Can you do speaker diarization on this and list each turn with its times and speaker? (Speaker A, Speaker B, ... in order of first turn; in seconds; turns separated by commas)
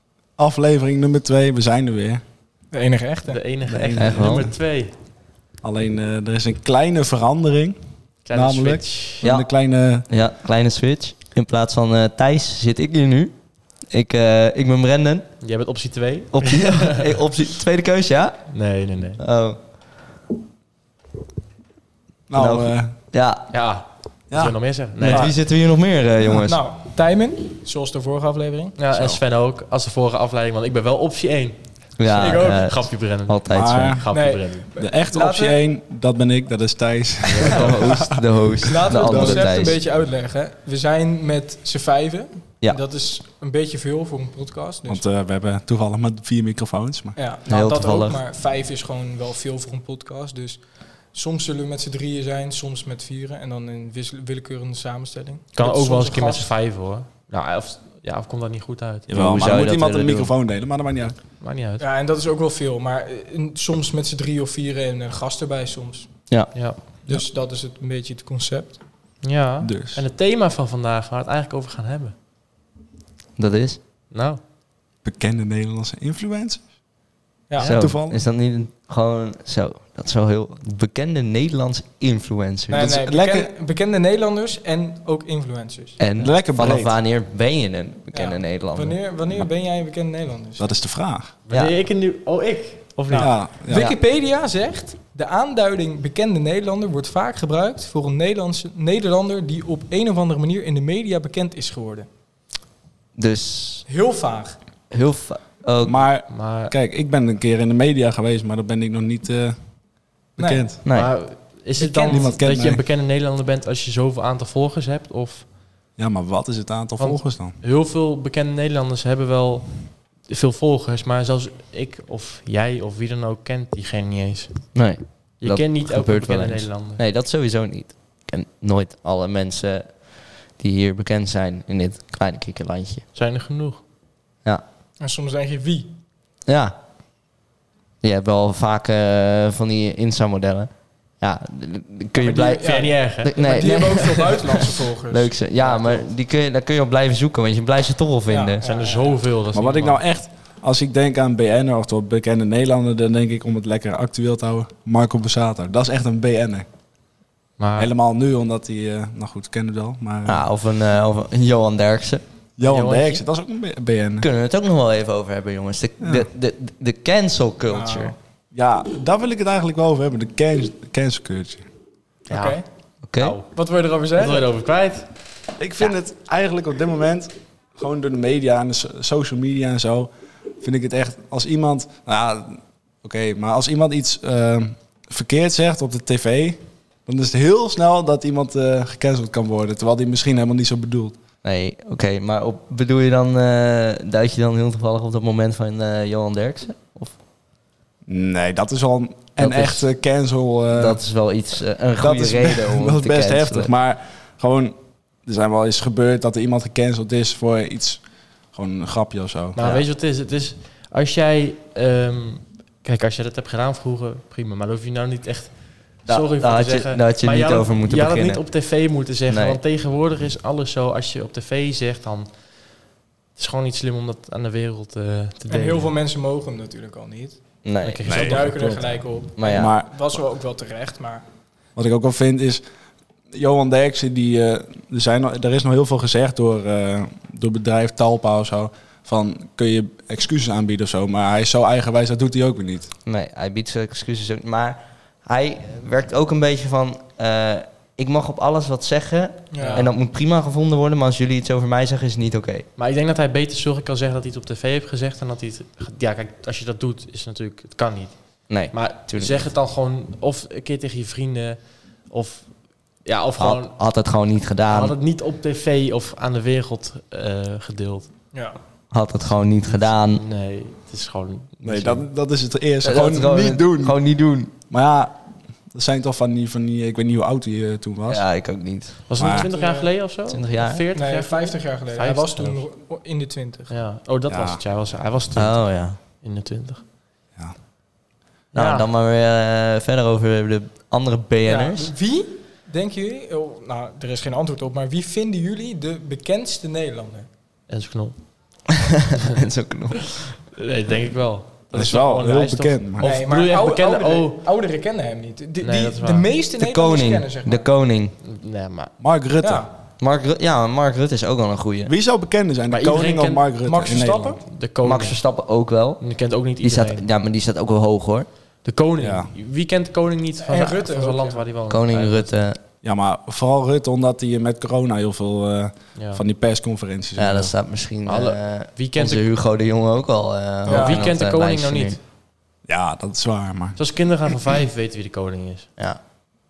Speaker A: 0.4-2.2, Speaker B: 2.7-3.4, Speaker C: 3.3-4.9, Speaker A: 3.6-4.5, Speaker D: 4.0-4.5, Speaker A: 5.6-7.8, Speaker C: 8.2-9.3, Speaker A: 8.3-10.1, Speaker D: 9.2-9.5, Speaker D: 10.1-13.3, Speaker D: 13.9-15.3, Speaker C: 15.4-17.1, Speaker D: 16.3-18.5, Speaker C: 18.5-19.2, Speaker D: 19.2-19.6, Speaker A: 22.3-23.0, Speaker D: 22.3-23.5, Speaker C: 23.5-25.3, Speaker A: 24.3-25.4, Speaker D: 25.0-26.6, Speaker A: 26.2-26.5, Speaker B: 26.5-28.8, Speaker C: 28.8-34.7, Speaker D: 28.9-29.2, Speaker D: 32.0-34.0, Speaker B: 32.2-32.6, Speaker A: 33.5-34.1, Speaker B: 34.1-35.6, Speaker A: 34.8-39.5, Speaker D: 37.2-39.8, Speaker B: 38.7-45.0, Speaker A: 44.9-47.2, Speaker B: 47.2-50.6, Speaker D: 47.5-48.2, Speaker B: 51.1-56.5, Speaker C: 55.5-59.1, Speaker A: 59.1-61.2, Speaker D: 59.1-60.3, Speaker C: 61.4-61.9, Speaker B: 61.8-66.1, Speaker D: 66.3-66.5, Speaker C: 66.5-66.8, Speaker B: 67.1-68.8, Speaker C: 69.2-72.2, Speaker A: 69.6-70.0, Speaker D: 73.4-73.8, Speaker C: 74.1-74.4, Speaker A: 75.0-76.6, Speaker B: 77.5-77.8, Speaker C: 77.6-77.9, Speaker D: 77.6-83.0, Speaker A: 77.8-78.2, Speaker B: 82.7-86.1, Speaker A: 82.8-83.5, Speaker D: 86.0-89.5, Speaker A: 86.2-87.0, Speaker B: 88.1-90.7, Speaker A: 90.6-91.4, Speaker C: 91.5-93.3, Speaker D: 91.5-91.8, Speaker B: 93.1-102.1, Speaker A: 93.2-93.8, Speaker D: 93.7-94.0, Speaker D: 103.2-103.9, Speaker B: 103.9-104.6, Speaker D: 104.9-106.1, Speaker A: 105.8-109.6, Speaker C: 106.3-106.8, Speaker B: 110.4-110.7, Speaker A: 110.4-110.8, Speaker D: 110.8-111.1, Speaker C: 110.9-115.5, Speaker B: 111.8-112.4, Speaker A: 112.1-112.8, Speaker A: 116.0-117.6, Speaker C: 117.0-124.8, Speaker D: 124.7-133.1, Speaker C: 125.4-127.0, Speaker C: 133.2-133.8, Speaker B: 135.0-135.9, Speaker D: 136.5-136.7, Speaker D: 138.0-148.6, Speaker B: 142.2-145.9, Speaker C: 142.6-144.1, Speaker B: 148.3-149.2, Speaker C: 148.6-150.0, Speaker A: 149.5-156.7, Speaker C: 157.6-157.9, Speaker A: 157.8-160.5, Speaker D: 160.3-162.2, Speaker A: 162.6-164.3, Speaker C: 162.6-163.2, Speaker D: 164.2-168.2, Speaker A: 166.0-166.3, Speaker B: 167.7-168.2, Speaker A: 168.5-171.7, Speaker B: 172.3-172.6, Speaker C: 172.3-172.6, Speaker D: 173.0-173.4, Speaker C: 173.2-173.5, Speaker B: 173.5-174.5, Speaker C: 174.2-175.1, Speaker A: 175.6-191.2, Speaker D: 191.4-197.2, Speaker A: 198.1-201.0, Speaker D: 199.4-199.9, Speaker D: 200.7-203.7, Speaker A: 202.0-209.6, Speaker C: 209.6-222.3, Speaker D: 209.6-209.9, Speaker D: 216.1-218.5, Speaker D: 219.3-219.6, Speaker C: 223.3-225.9, Speaker B: 225.5-227.4, Speaker D: 227.6-228.5, Speaker C: 227.8-228.9, Speaker A: 228.1-228.9, Speaker B: 228.2-231.2, Speaker D: 229.3-229.8, Speaker A: 229.5-230.1, Speaker A: 231.8-232.6, Speaker A: 233.3-242.9, Speaker D: 243.1-252.7, Speaker B: 249.5-249.8, Speaker C: 249.6-249.9, Speaker C: 252.8-263.7, Speaker D: 258.5-259.5, Speaker D: 263.4-265.0, Speaker C: 264.7-268.1, Speaker D: 268.9-270.2, Speaker C: 269.6-272.1, Speaker A: 271.6-274.0, Speaker D: 272.8-274.5, Speaker A: 274.7-275.2, Speaker A: 275.7-278.2, Speaker D: 278.1-279.0, Speaker C: 279.1-282.6, Speaker A: 279.2-279.5, Speaker B: 279.3-279.9, Speaker D: 280.3-280.9, Speaker B: 280.9-283.7, Speaker C: 283.7-286.8, Speaker A: 284.3-284.6, Speaker D: 285.3-286.0, Speaker D: 288.5-291.9, Speaker C: 288.6-288.9, Speaker B: 291.5-297.3, Speaker C: 297.7-298.3, Speaker D: 299.3-300.1, Speaker C: 300.5-304.4, Speaker A: 301.7-303.1, Speaker B: 303.0-307.7, Speaker C: 305.6-306.3, Speaker D: 306.6-308.2, Speaker C: 308.2-308.9, Speaker A: 309.0-309.7, Speaker B: 309.4-309.7, Speaker D: 310.0-311.9, Speaker A: 311.9-314.4, Speaker C: 312.7-313.5, Speaker B: 313.6-314.4, Speaker C: 314.4-315.3, Speaker D: 314.8-318.3, Speaker C: 316.0-317.1, Speaker C: 318.6-322.3, Speaker A: 319.0-319.3, Speaker B: 320.4-321.4, Speaker D: 321.7-322.6, Speaker A: 322.8-327.6, Speaker C: 325.9-326.2, Speaker D: 327.2-332.0, Speaker C: 328.1-329.3, Speaker C: 330.7-332.0, Speaker B: 330.7-331.0, Speaker A: 332.7-333.8, Speaker C: 333.8-335.7